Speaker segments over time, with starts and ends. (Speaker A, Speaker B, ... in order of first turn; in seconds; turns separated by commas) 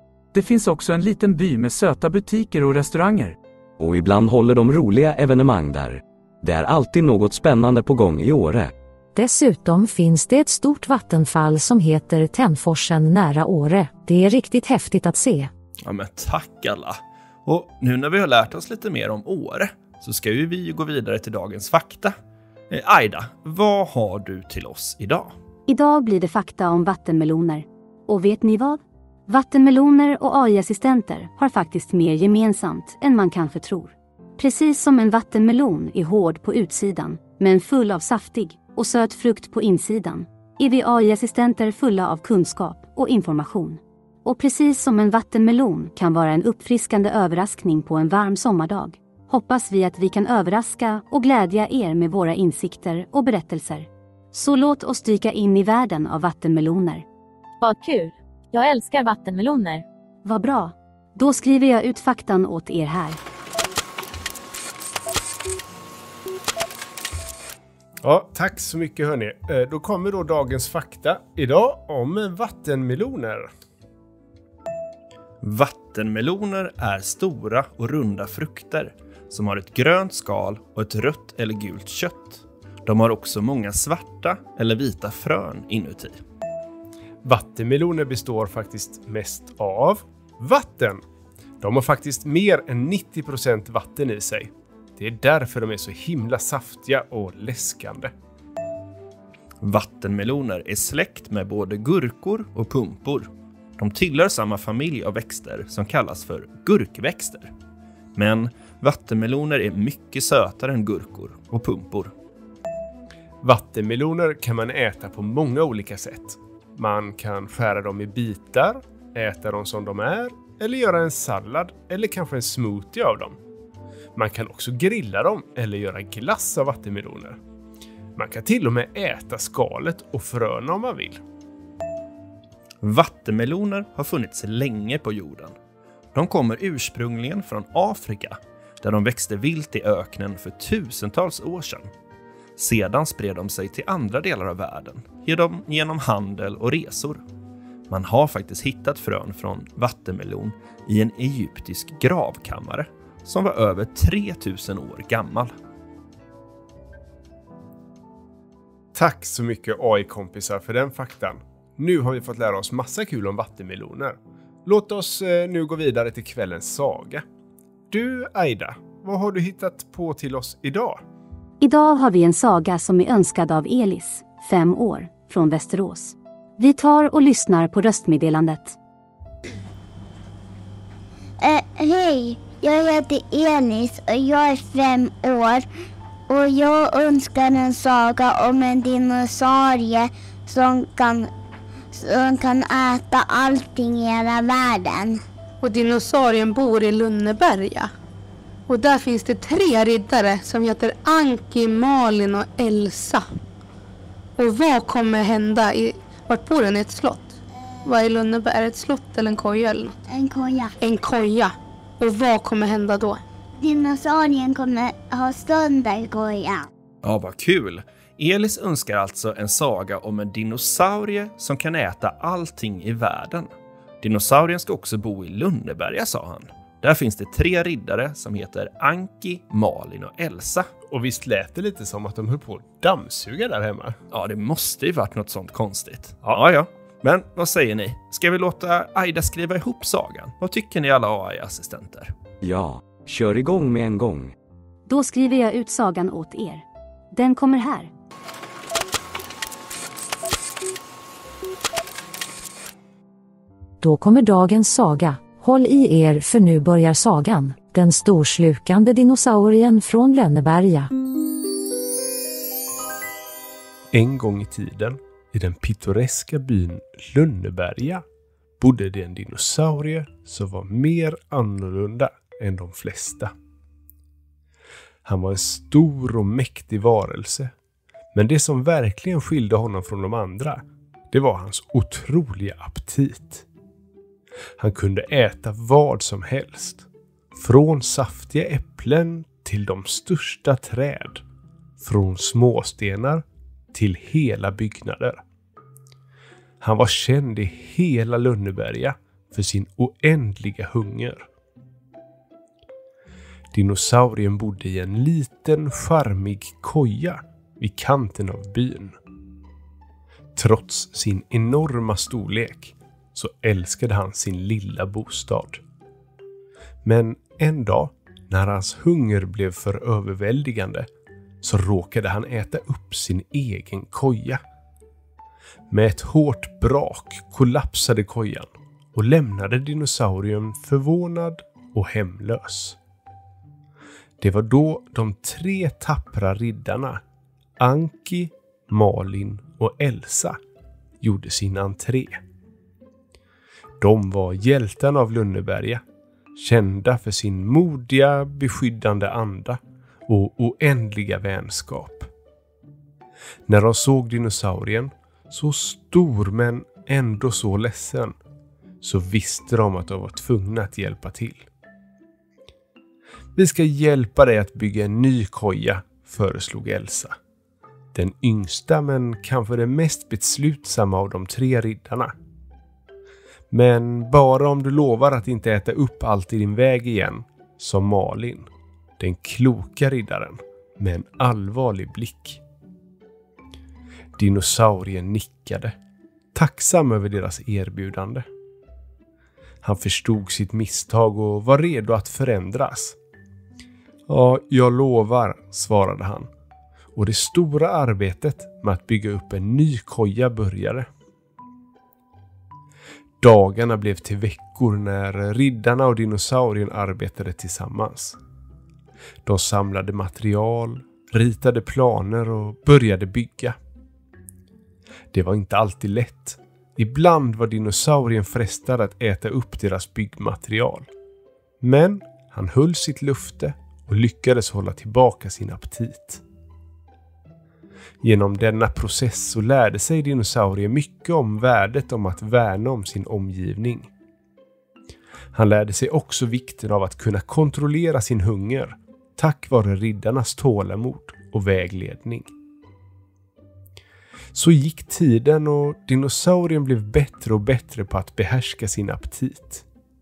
Speaker A: 0.3-3.4, Speaker B: 3.8-8.7, Speaker C: 9.2-15.5, Speaker D: 15.8-16.9, Speaker D: 17.4-22.1, Speaker D: 22.7-25.3, Speaker E: 25.7-57.0, Speaker F: 57.6-59.8, Speaker E: 60.2-63.2, Speaker G: 68.0-73.5, Speaker D: 75.4-86.2, Speaker G: 87.2-91.0, Speaker G: 91.6-98.1, Speaker D: 99.6-107.5, Speaker D: 108.2-112.1, Speaker G: 113.4-123.4, Speaker G: 124.2-127.4, Speaker G: 128.2-131.2, Speaker D: 132.8-135.5, Speaker D: 136.1-141.9, Speaker D: 142.6-147.2, Speaker D: 147.9-155.5, Speaker G: 158.9-167.2, Speaker G: 167.9-171.0, Speaker E: 171.6-178.8, Speaker H: 181.4-185.7, Speaker H: 186.3-191.3, Speaker H: 191.9-195.2, Speaker I: 195.6-197.9, Speaker I: 198.7-203.3, Speaker I: 204.4-207.3, Speaker I: 207.8-209.9, Speaker H: 210.1-210.7, Speaker I: 210.8-213.2, Speaker H: 213.6-216.7, Speaker D: 217.0-223.5, Speaker D: 224.0-230.7, Speaker G: 230.9-233.9, Speaker D: 234.1-242.1, Speaker B: 242.4-244.3, Speaker E: 244.9-247.9, Speaker C: 253.8-260.9, Speaker G: 263.9-268.0, Speaker G: 268.6-273.3, Speaker G: 275.1-277.5, Speaker G: 278.1-283.4, Speaker G: 284.6-286.9, Speaker G: 287.4-291.2, Speaker G: 291.8-295.2, Speaker G: 296.6-301.3, Speaker G: 303.5-308.9, Speaker G: 310.4-315.6, Speaker G: 316.8-320.9, Speaker G: 321.4-324.4, Speaker G: 325.7-332.8, Speaker G: 334.2-337.0, Speaker G: 337.6-340.4, Speaker G: 341.0-342.2, Speaker G: 343.8-345.8, Speaker G: 346.4-352.1, Speaker G: 353.5-358.1, Speaker G: 358.8-361.5, Speaker G: 363.4-367.1, Speaker G: 367.9-372.1, Speaker G: 373.5-378.5, Speaker G: 379.0-382.4, Speaker G: 384.2-385.7, Speaker G: 386.3-388.2, Speaker G: 389.6-393.0, Speaker G: 394.1-396.3, Speaker G: 396.9-400.9, Speaker G: 403.2-408.2, Speaker G: 409.2-413.6, Speaker G: 415.1-420.9, Speaker G: 421.6-426.2, Speaker G: 428.0-433.9, Speaker G: 435.3-442.3, Speaker G: 444.3-449.6